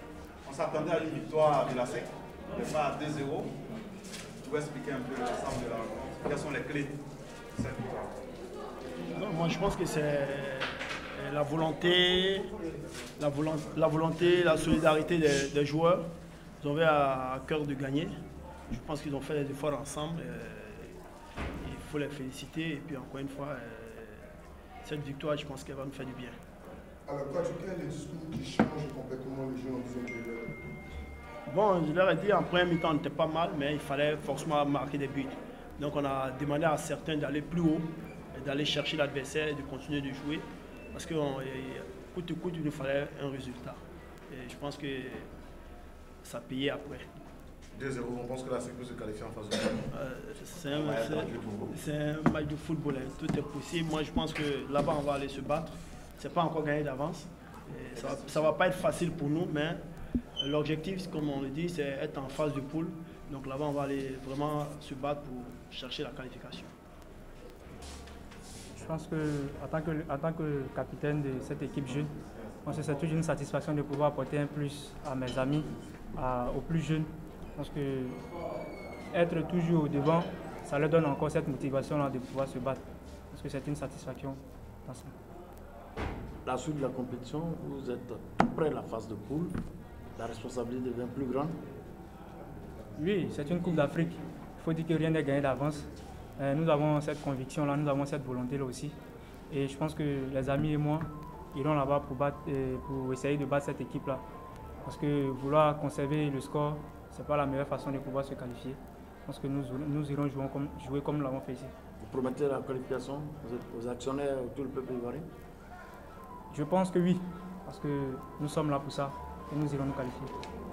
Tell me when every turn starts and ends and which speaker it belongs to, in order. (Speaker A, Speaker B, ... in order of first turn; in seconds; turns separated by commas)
Speaker A: 0.5-3.6, Speaker A: 4.4-7.0, Speaker A: 7.5-8.1, Speaker B: 9.1-12.5, Speaker B: 13.2-18.1, Speaker B: 18.7-21.0, Speaker B: 21.6-24.3, Speaker B: 24.8-26.4, Speaker C: 27.1-30.6, Speaker B: 31.5-45.3, Speaker B: 46.2-47.1, Speaker A: 47.7-49.9, Speaker B: 49.9-59.8, Speaker A: 50.7-51.7, Speaker B: 60.4-66.7, Speaker D: 68.7-72.1, Speaker D: 72.7-78.2, Speaker D: 79.1-85.1, Speaker E: 86.5-89.5, Speaker E: 90.2-91.6, Speaker D: 93.0-99.0, Speaker D: 99.5-104.2, Speaker D: 104.8-111.7, Speaker E: 112.0-115.3, Speaker D: 116.5-120.3